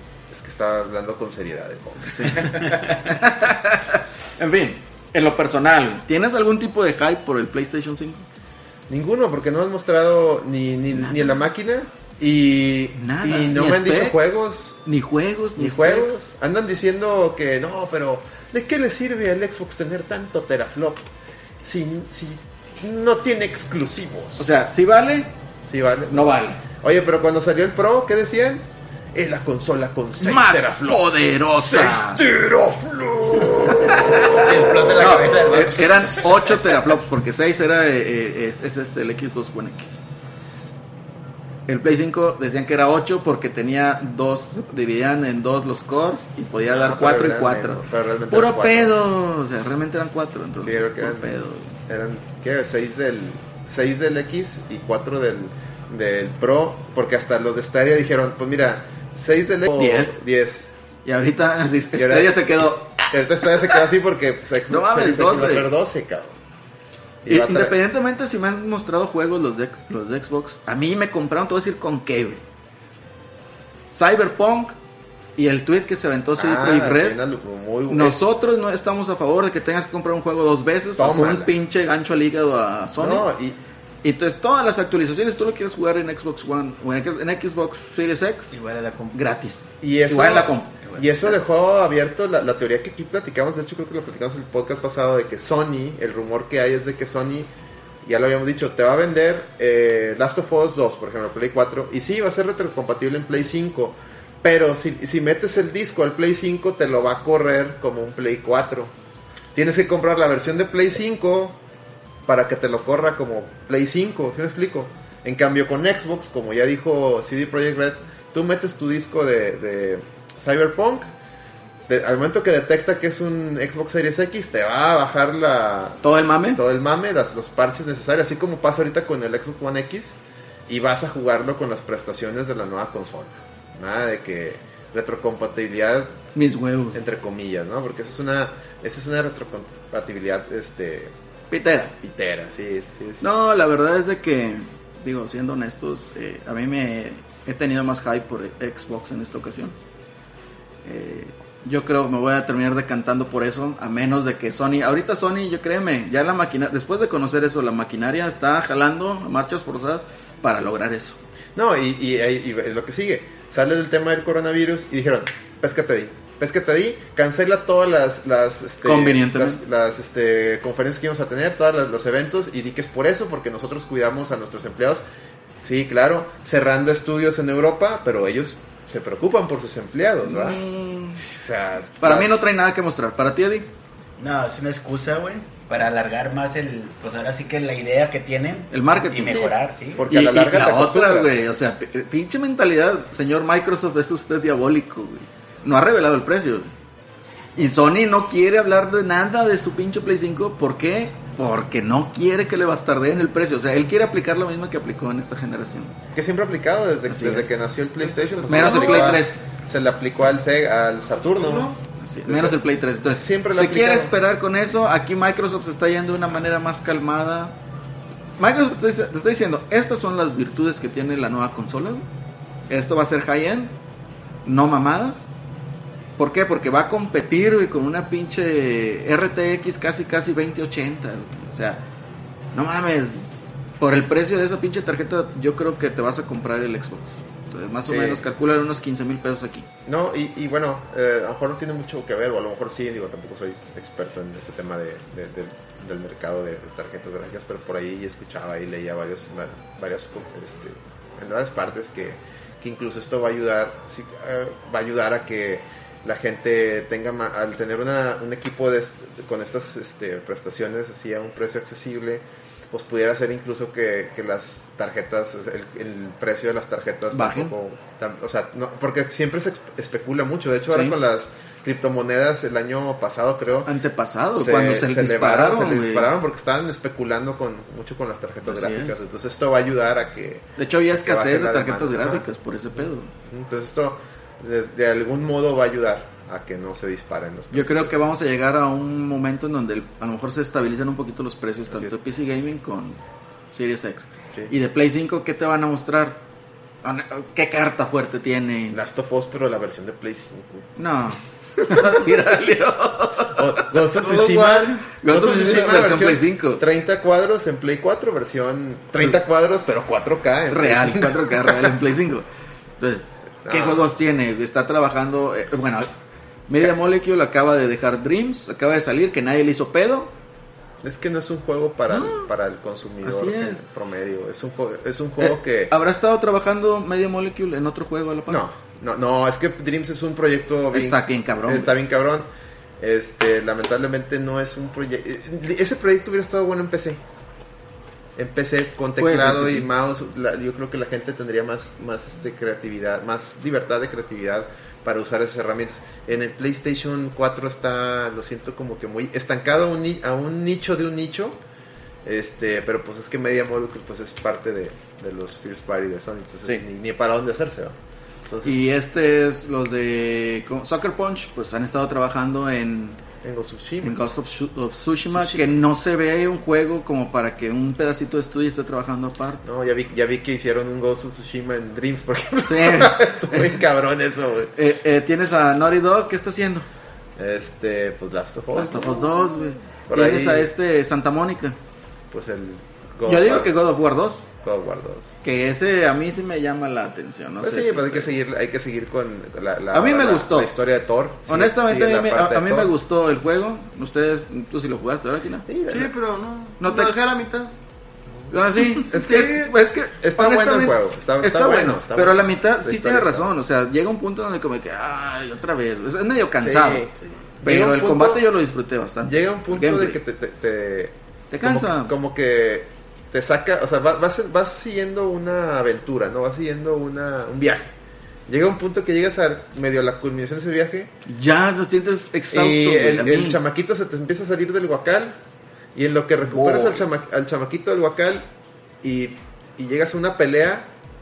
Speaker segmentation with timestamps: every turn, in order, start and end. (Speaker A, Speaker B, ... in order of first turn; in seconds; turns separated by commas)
Speaker A: 0.3-2.8, Speaker B: 2.1-8.2, Speaker A: 8.9-14.8, Speaker B: 10.9-11.3, Speaker B: 13.0-14.2, Speaker B: 14.9-16.1, Speaker A: 15.6-21.1, Speaker A: 21.6-24.5, Speaker B: 24.4-25.3, Speaker A: 25.7-34.5, Speaker B: 26.1-26.6, Speaker B: 30.2-32.2, Speaker B: 33.6-40.0, Speaker C: 34.4-36.2, Speaker B: 41.7-51.8, Speaker A: 46.7-49.0, Speaker A: 50.6-60.7, Speaker B: 59.7-60.2, Speaker B: 61.0-63.1, Speaker A: 62.0-62.4, Speaker A: 63.1-66.4, Speaker B: 64.7-65.7, Speaker A: 67.2-67.8, Speaker B: 67.3-72.4, Speaker B: 73.9-74.8, Speaker B: 75.4-77.2, Speaker A: 76.4-78.2, Speaker B: 77.9-83.3, Speaker A: 81.0-81.5, Speaker A: 83.0-83.6, Speaker B: 84.0-88.6, Speaker C: 88.5-89.2, Speaker B: 89.1-90.8, Speaker A: 89.8-97.5, Speaker C: 90.8-91.2, Speaker A: 98.0-108.9, Speaker A: 109.5-111.6, Speaker A: 112.3-121.1, Speaker A: 121.9-130.2, Speaker B: 126.0-126.6, Speaker A: 130.7-136.2, Speaker B: 136.3-137.0, Speaker A: 136.9-141.1, Speaker B: 141.5-142.0, Speaker A: 142.0-143.4, Speaker B: 143.2-149.8, Speaker B: 150.8-161.2, Speaker A: 161.6-175.0, Speaker B: 168.8-169.6, Speaker A: 175.6-180.6, Speaker B: 180.3-181.2, Speaker A: 181.2-182.3, Speaker B: 182.0-183.7, Speaker C: 184.2-190.1, Speaker B: 188.7-189.5, Speaker A: 189.3-191.5, Speaker B: 190.1-196.7, Speaker B: 197.6-205.9, Speaker A: 206.2-211.7, Speaker B: 207.1-207.5, Speaker B: 208.5-209.4, Speaker D: 211.5-211.7, Speaker B: 211.9-217.5, Speaker A: 212.2-214.1, Speaker B: 218.4-222.1, Speaker B: 222.7-223.7, Speaker B: 224.4-225.2, Speaker B: 226.2-231.8, Speaker B: 232.5-233.2, Speaker B: 233.8-239.7, Speaker A: 237.9-238.2, Speaker A: 239.9-273.7, Speaker B: 267.1-267.5, Speaker B: 270.7-271.0, Speaker B: 273.7-276.1, Speaker A: 274.4-282.2, Speaker B: 278.5-279.0, Speaker B: 280.6-283.1, Speaker A: 283.3-287.9, Speaker B: 287.5-293.0, Speaker A: 291.7-292.0, Speaker B: 293.5-296.2, Speaker B: 296.8-298.8, Speaker A: 298.7-300.7, Speaker B: 300.8-306.6, Speaker A: 301.7-302.0, Speaker A: 303.3-311.8, Speaker B: 310.5-312.3, Speaker B: 312.8-315.9, Speaker A: 313.4-313.9, Speaker B: 316.5-320.1, Speaker A: 320.8-325.8, Speaker B: 321.9-322.3, Speaker B: 323.0-323.6, Speaker B: 325.2-328.4, Speaker A: 328.3-332.3, Speaker B: 330.7-331.7, Speaker A: 332.8-337.0, Speaker A: 338.2-351.4, Speaker B: 339.0-339.7, Speaker A: 352.1-358.8, Speaker B: 358.4-363.0, Speaker A: 363.2-364.0, Speaker B: 363.8-369.4, Speaker A: 365.1-365.5, Speaker A: 369.4-374.5, Speaker B: 372.5-373.6, Speaker B: 374.6-376.7, Speaker A: 377.2-379.1, Speaker B: 378.6-381.6, Speaker A: 379.9-380.5, Speaker A: 382.1-383.5, Speaker B: 383.1-384.3, Speaker A: 384.4-385.2, Speaker B: 385.2-388.1, Speaker A: 387.4-392.7, Speaker B: 389.7-390.5, Speaker B: 391.3-395.5, Speaker A: 395.5-395.9, Speaker D: 395.7-397.5, Speaker B: 396.6-396.9, Speaker A: 398.3-403.3, Speaker B: 398.3-406.9, Speaker A: 406.4-408.2, Speaker B: 407.4-410.0, Speaker A: 409.1-417.7, Speaker B: 411.3-411.9, Speaker A: 418.3-420.9, Speaker B: 421.1-423.4, Speaker A: 422.3-425.2, Speaker A: 425.8-428.3, Speaker B: 426.3-426.8, Speaker A: 428.8-430.7